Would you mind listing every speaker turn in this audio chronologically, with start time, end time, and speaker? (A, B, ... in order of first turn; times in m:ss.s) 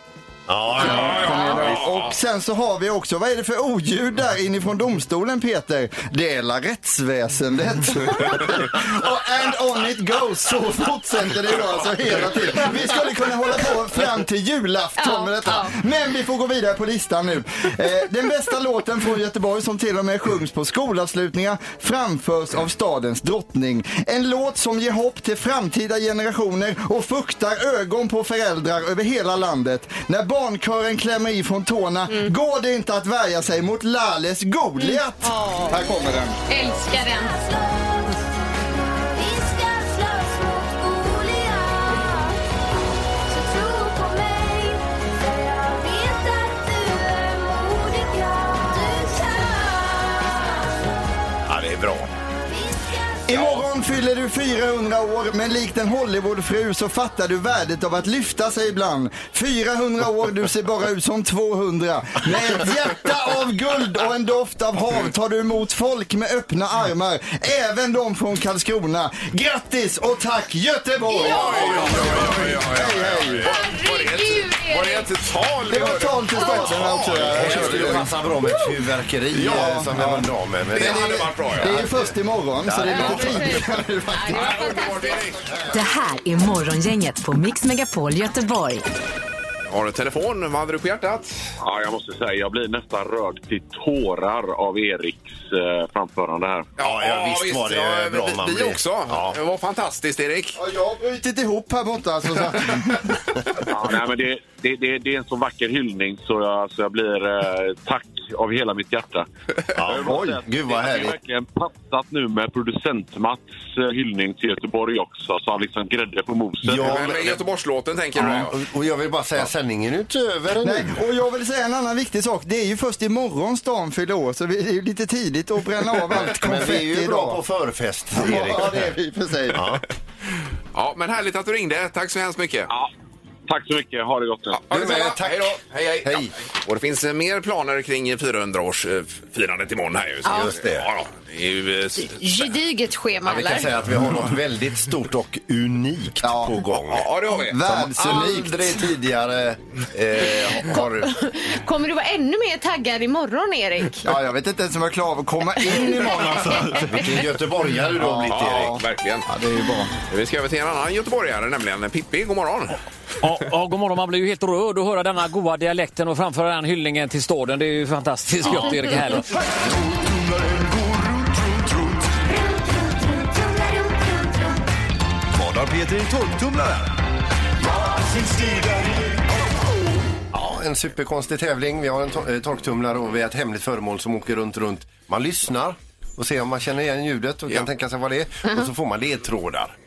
0:00.5-0:01.5 A
0:00.8-0:02.1 B
0:00.8-0:36.4 C
0:15.0-0:15.7 D
0:34.8-0:35.8 D
0:36.5-0:37.4 D
0:51.5-0:52.1 A
0:53.2-1:13.5 C
1:11.1-1:11.5 D
1:11.2-1:18.1 B
1:11.3-1:12.6 A
1:13.4-1:15.1 D
1:15.7-1:18.1 C
1:16.3-1:16.8 D
1:17.1-1:22.0 A
1:18.4-1:18.7 D
1:19.3-1:24.6 C
1:20.7-1:21.8 B
1:22.6-1:23.6 A
1:22.9-1:25.3 D
1:24.3-1:25.4 B
1:25.5-1:25.9 A
1:25.7-1:28.8 E
1:29.6-1:31.4 B
1:31.6-1:36.7 F
1:36.8-1:40.6 B
1:36.8-1:39.4 A
1:40.5-1:43.1 C
1:43.7-1:49.3 F
1:49.7-1:51.2 A
1:49.8-1:57.0 F
1:56.6-1:57.4 A
1:56.8-1:58.5 B
1:58.2-2:00.9 A
2:00.6-2:07.4 C
2:06.1-2:08.9 A
2:08.1-2:09.6 C
2:09.5-2:09.8 A
2:10.7-2:12.7 B
2:13.5-2:14.6 F
2:14.5-2:22.5 B
2:14.7-2:16.3 A
2:20.2-2:20.5 D
2:20.2-2:20.9 A
2:22.0-2:23.7 D
2:23.2-2:27.1 A
2:26.2-2:26.6 C
2:26.9-2:27.6 B
2:27.3-2:28.8 C
2:27.6-2:31.2 A
2:30.7-2:34.0 D
2:34.0-2:37.1 C
2:35.6-2:37.2 D
2:35.8-2:38.7 A
2:38.0-2:39.9 C
2:38.2-2:39.2 B
2:40.1-2:42.8 B
2:43.2-2:49.2 G
2:49.6-2:52.1 H
2:55.3-2:57.0 H
2:57.7-2:59.2 H
3:00.3-3:09.7 A